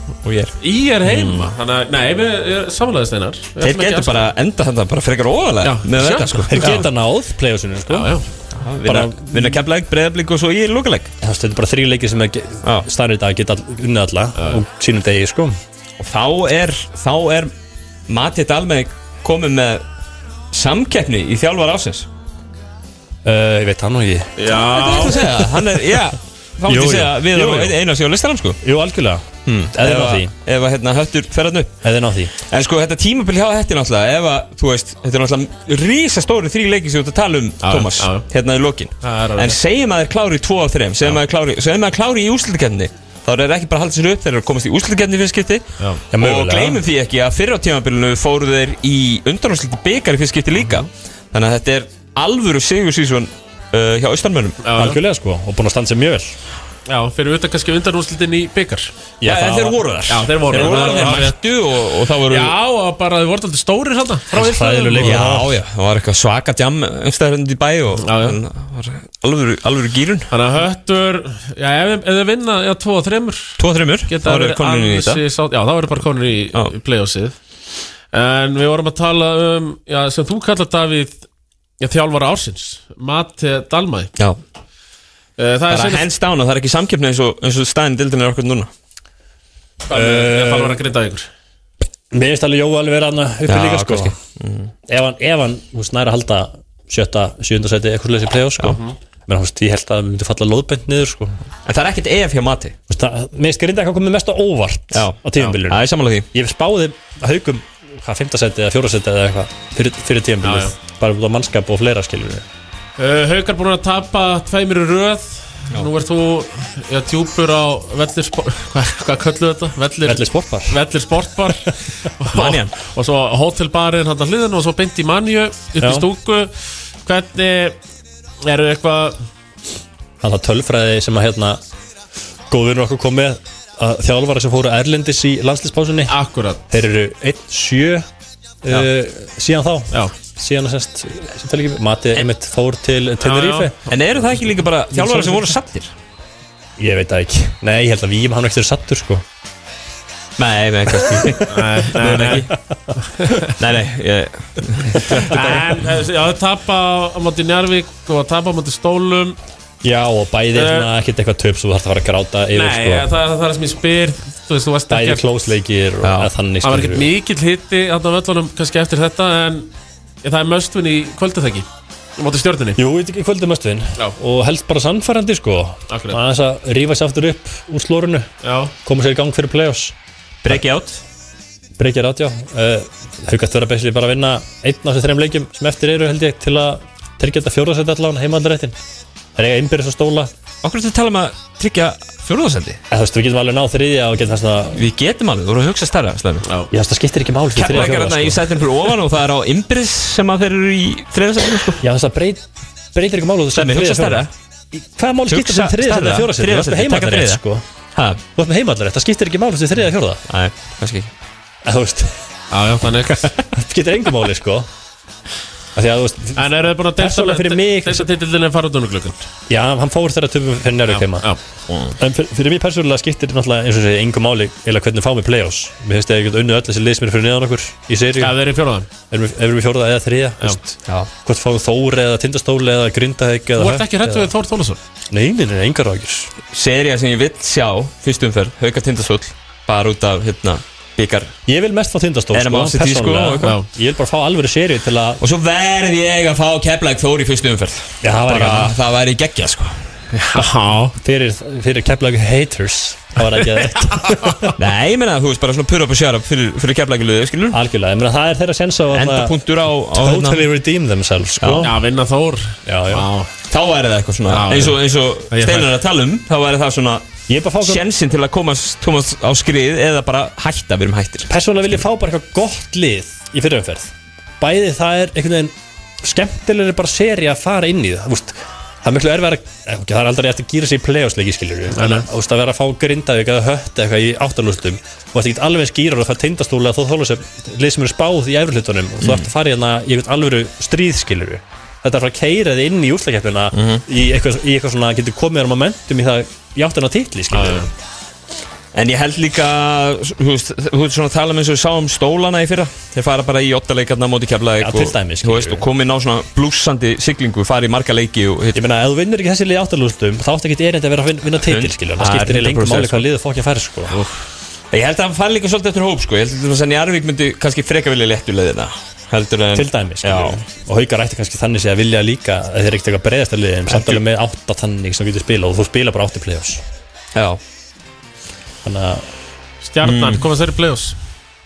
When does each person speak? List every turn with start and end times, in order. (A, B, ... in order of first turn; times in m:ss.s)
0:00.2-0:00.5 A
0:00.6-0:04.3 B
0:01.0-0:01.5 A
0:03.6-0:06.9 A
0:05.6-0:06.9 B
0:06.5-0:08.2 C
0:07.9-0:08.3 B
0:08.5-0:11.1 A
0:08.8-0:09.6 C
0:11.2-0:15.5 C
0:16.0-0:17.5 A
0:18.1-0:19.8 A
0:20.5-0:22.1 A
0:23.2-0:24.5 C
0:24.4-0:25.4 B
0:24.5-0:28.6 A
0:26.7-0:27.8 C
0:28.6-0:30.3 C
0:29.8-0:31.7 A
0:31.8-0:32.3 C
0:32.4-0:54.6 A
0:37.6-0:38.2 B
0:39.0-0:39.6 B
0:46.1-0:46.8 C
0:54.6-0:55.0 B
0:54.8-0:56.3 C
0:56.9-0:58.9 B
0:59.2-0:59.8 C
0:59.2-1:02.5 A
1:00.1-1:01.4 B
1:00.5-1:01.3 C
1:02.1-1:05.3 B
1:04.3-1:05.6 C
1:05.0-1:10.3 A
1:08.0-1:08.4 B
1:10.3-1:17.4 B
1:13.6-1:15.2 A
1:18.1-1:21.2 B
1:21.8-1:24.1 B
1:25.4-1:26.1 B
1:25.7-1:28.7 A
1:29.9-1:31.3 B
1:29.9-1:30.8 C
1:32.1-1:34.1 C
1:33.4-1:34.7 A
1:34.9-1:41.4 C
1:38.6-1:39.0 B
1:41.6-1:42.8 A
1:42.9-1:52.4 C
1:44.9-1:46.3 A
1:50.4-1:50.7 B
1:53.0-2:06.5 B
2:00.0-2:00.8 C
2:02.3-2:02.7 A
2:05.8-2:06.1 C
2:07.0-2:07.8 B
2:08.4-2:09.2 B
2:10.2-2:11.6 C
2:12.5-2:16.1 C
2:16.1-2:16.6 B
2:16.7-2:18.0 C
2:18.6-2:23.7 C
2:23.2-2:23.7 B
2:23.9-2:25.9 A
2:24.9-2:25.4 C
2:26.8-2:29.2 C
2:30.4-2:32.5 A
2:30.9-2:31.4 C
2:31.3-2:32.5 B
2:32.0-2:32.4 C
2:33.1-2:33.5 B
2:33.4-2:35.3 A
2:35.0-2:35.8 C
2:35.2-2:39.4 B
2:39.8-2:43.1 C
2:40.5-2:40.9 B
2:42.5-2:45.2 B
2:44.9-2:47.1 C
2:46.0-2:46.3 A
2:46.6-2:49.7 B
2:50.2-2:52.8 B
2:52.8-2:58.3 C
2:55.9-2:56.2 B
2:58.4-2:58.7 B
2:58.8-2:59.9 C
3:00.4-3:01.0 A
3:01.8-3:08.8 C
3:09.4-3:10.3 C
3:10.6-3:12.8 A
3:12.9-3:14.8 C
3:14.7-3:16.5 A
3:16.4-3:16.7 B
3:16.7-3:18.6 C
3:17.5-3:21.8 A
3:21.8-3:27.6 C
3:23.5-3:24.3 A
3:25.3-3:27.4 A
3:27.9-3:28.2 A
3:28.3-3:30.2 C
3:30.3-3:31.1 A
3:31.6-3:32.2 C
3:32.5-3:33.3 B
3:33.4-3:34.7 C
3:35.7-3:38.1 C
3:36.4-3:39.2 B
3:39.5-3:41.3 C
3:40.9-3:41.4 B
3:42.0-3:48.4 C
3:48.2-3:48.9 B
3:49.1-3:54.3 C
3:53.6-3:54.8 B
3:55.1-3:56.3 C
3:56.5-4:01.3 A
4:01.4-4:05.2 C
4:02.3-4:03.5 A
4:05.2-4:09.9 A
4:08.0-4:08.8 C
4:10.1-4:11.0 B
4:11.0-4:14.6 C
4:13.4-4:14.5 B
4:14.6-4:17.6 A
4:17.5-4:19.4 C
4:18.9-4:20.4 A
4:19.9-4:21.7 C
4:21.4-4:21.7 A
4:21.6-4:23.3 B
4:22.6-4:23.1 C
4:23.5-4:27.1 A
4:24.3-4:24.8 B
4:25.3-4:25.8 B
4:27.3-4:27.8 C
4:27.6-4:31.3 A
4:31.3-4:57.7 C
4:41.7-4:42.0 B
4:49.0-4:49.3 A
4:53.5-4:53.8 A
4:57.3-4:57.7 B
4:58.7-5:08.6 A
5:04.6-5:05.6 C
5:08.5-5:14.0 C
5:11.4-5:13.0 A
5:14.7-5:20.4 A
5:19.5-5:26.6 C
5:23.7-5:24.0 A
5:27.1-5:27.4 A
5:28.6-5:29.0 C
5:29.6-5:30.9 B
5:29.8-5:30.2 A